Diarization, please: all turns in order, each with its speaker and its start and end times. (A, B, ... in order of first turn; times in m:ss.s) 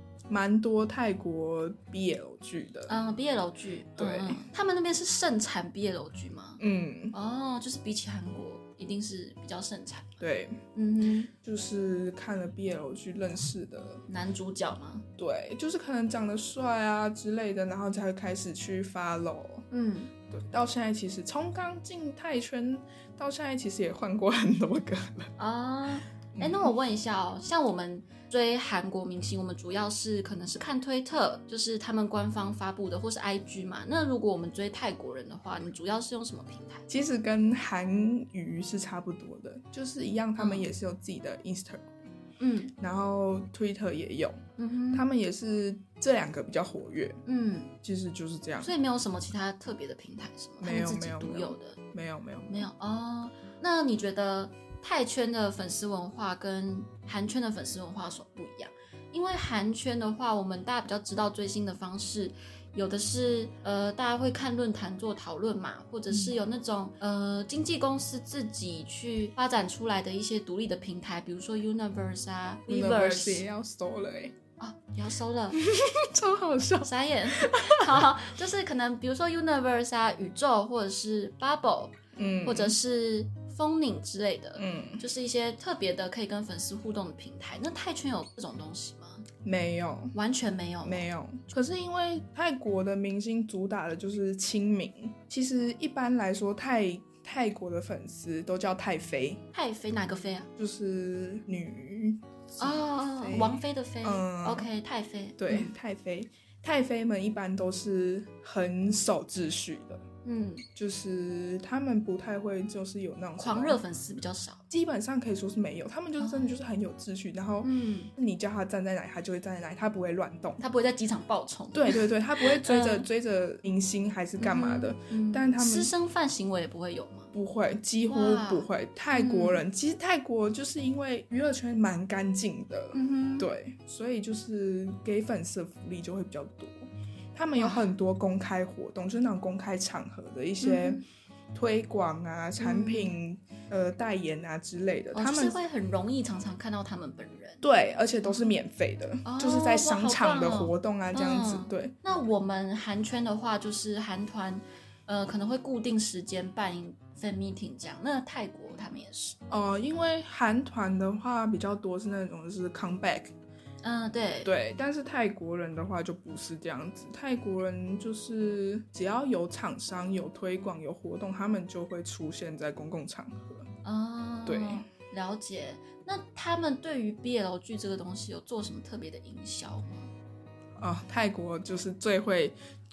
0:00.3-0:02.9 A
0:02.9-0:06.6 B
0:04.0-0:04.4 A
0:06.6-0:07.2 A
0:07.1-0:10.2 B
0:10.2-0:10.6 A
0:10.8-0:11.3 B
0:11.4-0:14.0 A
0:14.1-0:15.0 B
0:15.2-0:19.7 A
0:19.7-0:20.1 B
0:20.3-0:25.3 A
0:25.4-0:36.8 B
0:26.3-0:26.8 A
0:36.9-0:41.9 A
0:40.4-0:40.7 B
0:42.4-0:42.7 B
0:42.8-0:47.2 A
0:44.6-0:45.1 B
0:47.3-0:47.7 B
0:47.8-0:48.7 A
0:48.6-0:51.8 B
0:50.6-0:52.7 A
0:52.5-1:13.4 B
1:06.1-1:06.4 A
1:12.7-1:14.4 A
1:14.6-1:15.6 B
1:15.5-1:18.2 A
1:16.8-1:29.3 B
1:22.2-1:22.8 A
1:24.6-1:25.0 A
1:29.4-1:30.2 A
1:30.1-1:31.1 B
1:30.8-1:39.4 A
1:39.5-1:40.5 B
1:40.6-1:44.7 A
1:42.6-1:45.7 B
1:45.4-1:50.0 A
1:50.2-1:50.6 B
1:50.8-1:53.8 A
1:53.4-1:54.6 B
1:54.7-2:00.6 A
1:56.2-1:56.5 B
1:57.6-1:58.1 B
2:00.6-2:03.1 B
2:01.7-2:05.9 A
2:04.4-2:07.3 B
2:07.3-2:21.0 A
2:08.1-2:09.6 B
2:12.9-2:13.5 B
2:17.6-2:17.9 B
2:20.6-2:21.0 B
2:21.5-2:25.6 A
2:22.6-2:23.1 B
2:25.1-2:27.6 B
2:27.6-2:32.0 A
2:28.2-2:28.5 B
2:29.2-2:39.4 B
2:39.5-2:43.3 A
2:43.8-2:44.5 B
2:44.4-2:53.7 A
2:53.8-3:00.1 B
2:54.5-2:54.8 A
3:00.8-3:02.6 A